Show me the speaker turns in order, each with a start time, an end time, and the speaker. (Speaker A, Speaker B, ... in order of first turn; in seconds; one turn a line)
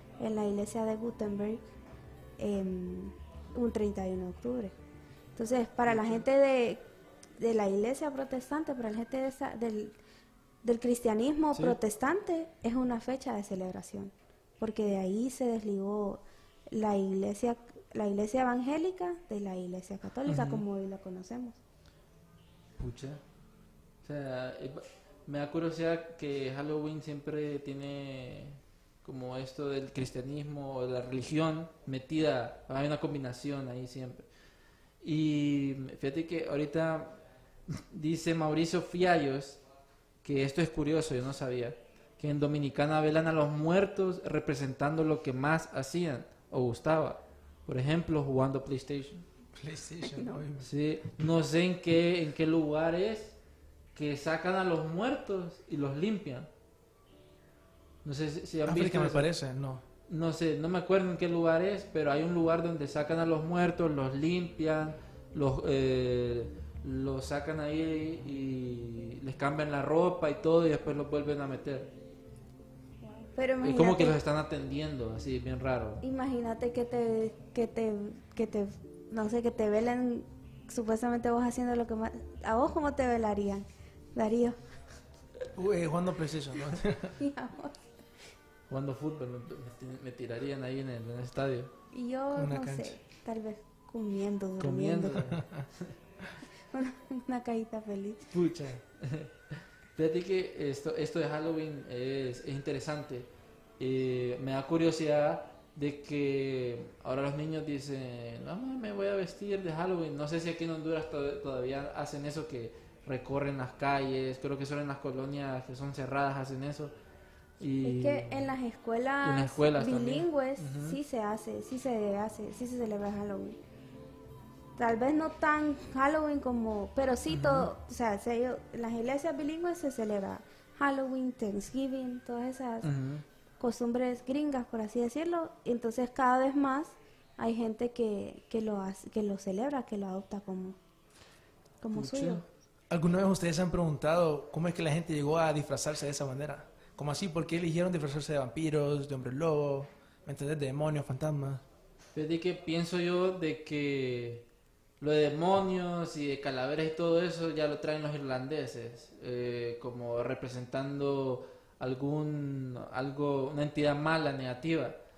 Speaker A: 0.2-1.6
Speaker A: 2.4-4.7
Speaker A: 5.3-6.8
Speaker B: 5.8-6.2
Speaker A: 7.4-9.9
Speaker A: 10.6-21.6
Speaker B: 20.3-20.6
Speaker B: 22.8-23.2
Speaker B: 24.0-34.2
Speaker B: 35.0-39.6
Speaker B: 40.2-49.2
Speaker C: 49.6-50.7
Speaker A: 50.1-50.4
Speaker B: 50.6-53.3
Speaker B: 53.9-56.5
Speaker B: 58.0-59.3
Speaker C: 58.6-59.8
Speaker B: 60.1-71.9
Speaker A: 73.0-74.2
Speaker B: 73.6-76.0
Speaker A: 76.0-84.6
Speaker C: 85.5-87.1
Speaker A: 87.2-87.8
Speaker B: 88.7-91.7
Speaker A: 91.9-95.2
Speaker C: 92.3-93.0
Speaker B: 94.6-95.9
Speaker A: 96.7-98.3
Speaker B: 98.3-116.9
Speaker B: 117.6-118.5
Speaker A: 117.8-123.6
Speaker B: 119.2-121.0
Speaker A: 124.8-132.9
Speaker B: 127.3-127.7
Speaker B: 132.8-133.2
Speaker A: 133.6-140.8
Speaker A: 141.8-142.4
Speaker B: 141.9-142.4
Speaker C: 142.9-151.6
Speaker B: 152.1-154.4
Speaker B: 155.0-165.0